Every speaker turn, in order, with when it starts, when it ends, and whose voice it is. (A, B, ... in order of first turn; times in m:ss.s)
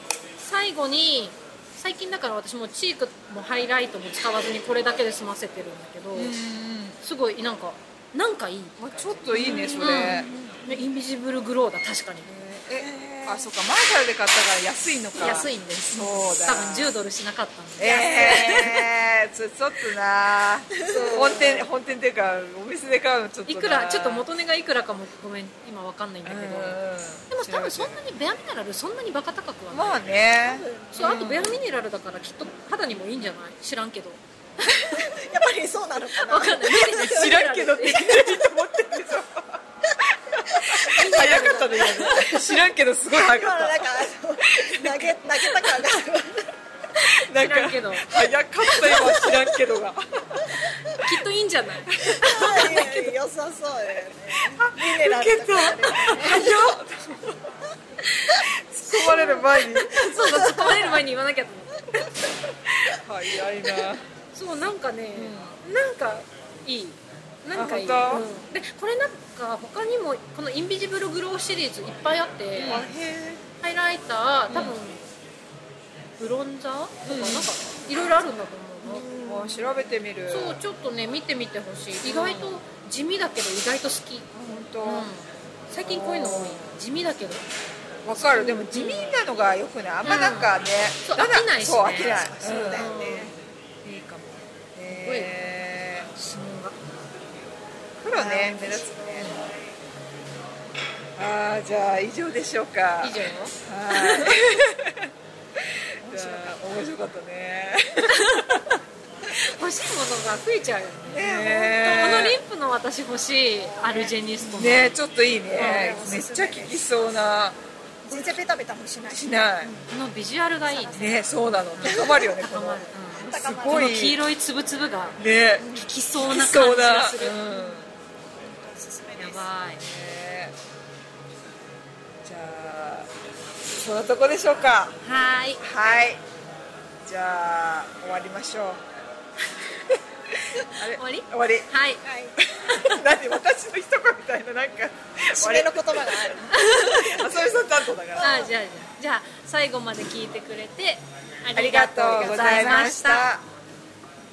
0:00.4-0:06.3 A
0:06.1-0:07.0 B
0:07.0-0:12.3 A
0:08.8-0:10.3 B
0:09.4-0:10.6 C
0:12.3-0:17.0 B
0:15.2-0:18.8 A
0:17.8-0:24.3 B
0:17.8-0:18.8 C
0:20.7-0:21.7 C
0:23.5-0:30.0 A
0:26.2-0:28.0 B
0:29.7-0:31.6 B
0:30.4-0:31.2 C
0:30.9-0:35.1 A
0:34.7-0:37.3 C
0:36.2-0:38.5 A
0:36.7-0:45.9 B
0:40.4-0:41.3 C
0:40.9-0:42.7 A
0:43.1-0:46.5 C
0:47.0-0:50.6 B
0:47.4-0:48.1 A
0:48.9-0:49.2 C
0:50.9-0:53.1 A
0:51.9-0:52.9 B
0:52.2-0:56.6 C
0:54.6-0:57.4 B
0:58.4-1:00.6 B
0:58.9-1:02.0 A
1:02.7-1:04.0 B
1:04.3-1:12.9 A
1:05.1-1:05.6 B
1:07.5-1:08.3 B
1:12.6-1:13.4 B
1:13.6-1:15.0 A
1:14.5-1:14.8 B
1:16.2-1:19.1 A
1:17.0-1:17.5 B
1:18.8-1:19.9 C
1:19.2-1:20.6 B
1:20.3-1:24.3 A
1:22.0-1:22.6 B
1:24.3-1:25.1 B
1:24.8-1:27.5 A
1:25.8-1:26.8 B
1:28.0-1:33.3 B
1:28.2-1:29.2 A
1:30.0-1:33.3 A
1:31.8-1:33.3 C
1:33.8-1:36.1 B
1:34.9-1:35.3 A
1:36.2-1:36.8 A
1:38.0-1:39.4 B
1:38.1-1:39.7 C
1:41.2-1:45.1 B
1:43.0-1:44.6 A
1:46.0-1:48.8 B
1:46.0-1:46.6 C
1:48.1-1:48.6 A
1:49.4-1:55.0 A
1:51.1-1:52.3 C
1:51.2-1:52.4 B
1:53.6-1:54.6 C
1:54.6-1:57.6 B
1:55.5-1:56.8 C
1:55.6-1:56.0 A
1:58.0-1:59.9 C
1:58.1-1:58.4 B
1:59.1-1:59.7 B
1:59.9-2:01.1 A
2:00.6-2:01.3 C
2:01.0-2:04.2 B
2:01.8-2:05.2 A
2:01.8-2:02.5 C
2:03.1-2:04.1 C
2:05.2-2:05.6 B
2:05.6-2:05.9 C
2:05.8-2:07.8 A
2:06.2-2:07.9 B
2:08.3-2:09.5 C
2:09.2-2:09.8 A
2:09.8-2:10.5 B
2:12.2-2:13.1 B
2:13.6-2:15.0 B
2:15.0-2:15.6 A
2:15.6-2:16.2 B
2:17.0-2:18.8 B
2:19.9-2:21.7 B
2:21.0-2:22.0 A
2:22.0-2:22.4 C
2:22.4-2:28.3 B
2:22.7-2:23.0 A
2:25.4-2:27.5 C
2:26.5-2:27.3 A
2:28.2-2:28.5 C
2:28.2-2:33.3 A
2:31.5-2:33.4 B